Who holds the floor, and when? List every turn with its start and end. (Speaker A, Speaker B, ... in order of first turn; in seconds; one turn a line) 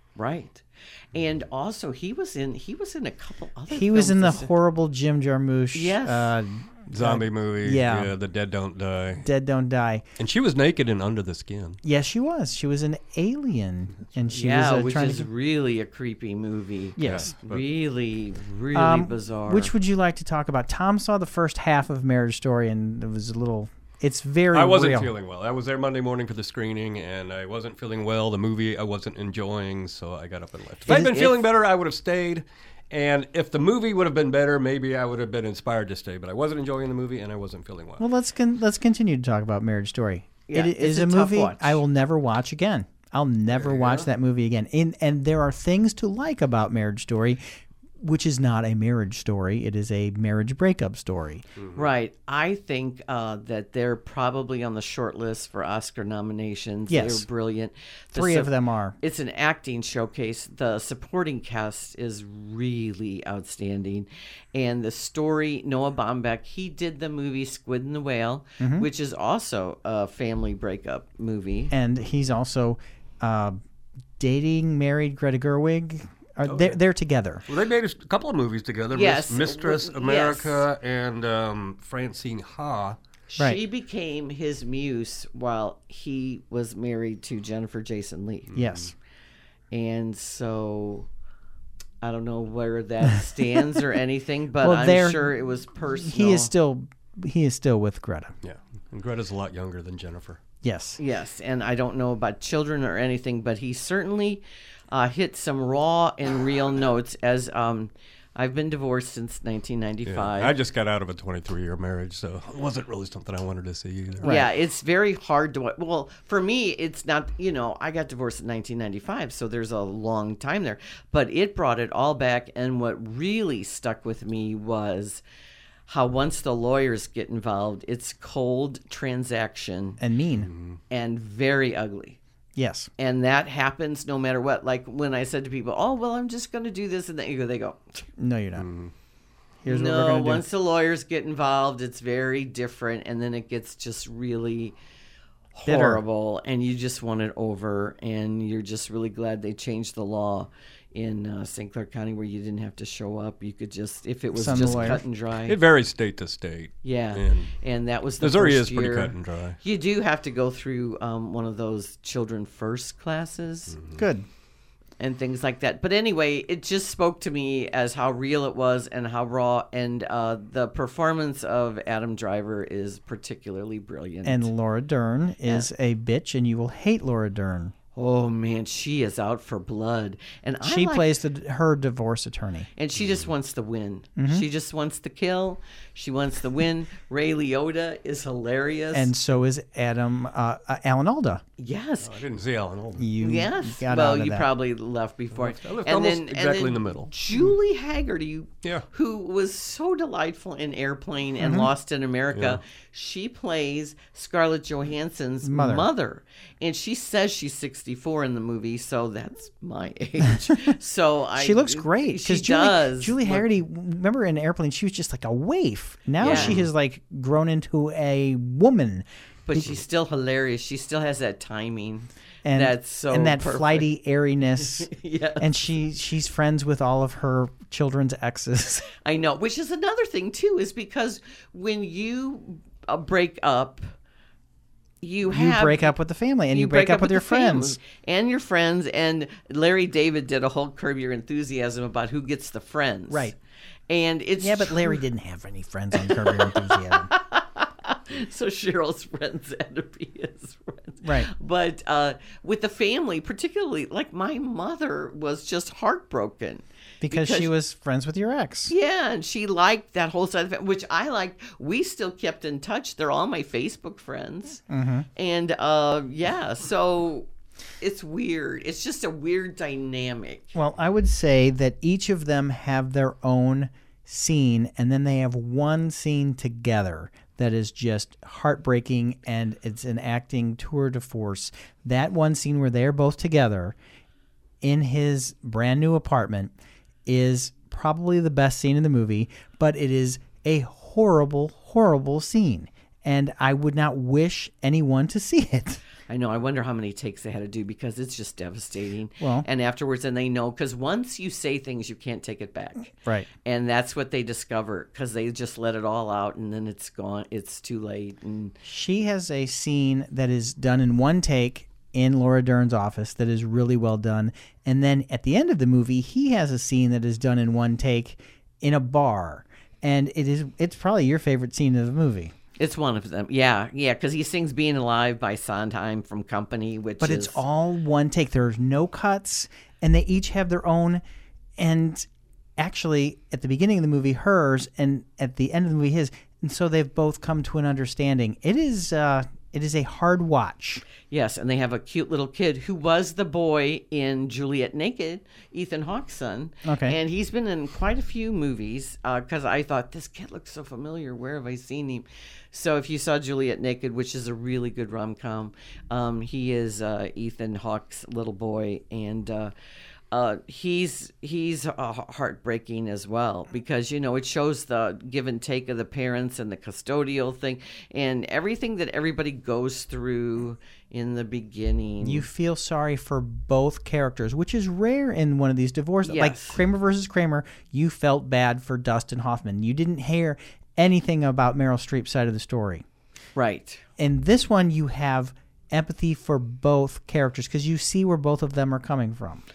Speaker A: 0.2-4.5
Speaker B: 3.7-8.1
Speaker A: 5.7-6.3
Speaker C: 6.9-9.3
Speaker B: 9.2-10.0
Speaker C: 10.2-11.8
Speaker B: 11.8-15.3
Speaker A: 14.3-19.7
Speaker B: 17.0-17.3
Speaker C: 17.0-17.6
Speaker B: 18.7-25.1
Speaker C: 24.5-38.0
Speaker B: 30.9-31.3
Speaker B: 38.0-47.4
Speaker A: 40.5-41.8
Speaker C: 43.5-44.1
Speaker B: 48.0-51.5
Speaker A: 51.7-71.7
Speaker B: 56.9-57.2
Speaker B: 58.1-59.0
Speaker B: 68.6-68.9
Speaker B: 71.7-73.6
Speaker B: 74.2-77.5
Speaker C: 76.5-76.8
Speaker C: 77.5-83.0
Speaker A: 78.9-80.6
Speaker A: 83.3-88.6
Speaker C: 88.5-88.8
Speaker B: 88.5-88.9
Speaker A: 89.7-91.1
Speaker A: 92.0-96.5
Speaker B: 94.6-95.3
Speaker B: 95.9-98.3
Speaker C: 98.4-100.4
Speaker B: 100.6-101.0
Speaker A: 101.0-110.5
Speaker C: 110.1-114.3
Speaker B: 114.2-114.5
Speaker A: 114.2-125.2
Speaker A: 125.9-130.0
Speaker B: 130.0-130.5
Speaker C: 130.4-130.8
Speaker A: 130.9-132.2
Speaker B: 132.6-132.9
Speaker A: 133.0-138.1
Speaker B: 138.2-138.7
Speaker C: 138.6-138.9
Speaker B: 139.6-140.4
Speaker A: 139.7-144.8
Speaker A: 145.5-155.6
Speaker B: 145.7-146.0
Speaker B: 154.3-155.0
Speaker C: 154.6-157.6
Speaker A: 156.8-163.8
Speaker C: 158.2-159.6
Speaker C: 163.8-164.0
Speaker B: 164.0-164.2
Speaker A: 165.0-174.5
Speaker B: 174.2-177.7
Speaker A: 177.9-181.1
Speaker B: 180.7-182.7
Speaker A: 182.8-189.1
Speaker C: 183.0-183.3
Speaker B: 184.2-184.4
Speaker B: 188.9-191.4
Speaker A: 191.6-192.1
Speaker C: 192.0-193.1
Speaker B: 193.0-194.5
Speaker A: 193.2-213.5
Speaker C: 195.3-197.1
Speaker B: 201.4-201.7
Speaker B: 205.4-205.9
Speaker B: 211.4-219.7
Speaker A: 216.2-216.6
Speaker C: 216.2-216.7
Speaker A: 219.5-223.9
Speaker B: 222.4-228.9
Speaker A: 224.8-225.6
Speaker A: 229.0-233.9
Speaker A: 235.0-235.9
Speaker B: 235.3-237.8
Speaker A: 236.5-243.3
Speaker B: 243.1-243.4
Speaker A: 243.9-245.0
Speaker B: 244.4-247.1
Speaker A: 245.9-257.5
Speaker B: 251.0-251.3
Speaker B: 257.0-258.7
Speaker A: 258.7-264.6
Speaker B: 264.7-265.1
Speaker A: 265.1-267.3
Speaker A: 267.8-270.5
Speaker B: 270.6-283.8
Speaker B: 284.6-286.5
Speaker B: 287.1-295.8
Speaker A: 296.1-302.9
Speaker B: 299.2-299.5
Speaker B: 303.0-303.3
Speaker A: 303.4-308.6
Speaker B: 308.6-322.3
Speaker A: 322.6-327.4
Speaker B: 327.0-331.0
Speaker B: 331.6-332.1
Speaker B: 332.6-340.8
Speaker A: 341.1-359.5
Speaker B: 346.6-347.0
Speaker A: 360.1-372.3
Speaker B: 372.0-382.9
Speaker A: 376.1-376.6
Speaker A: 383.4-383.8
Speaker B: 384.0-389.4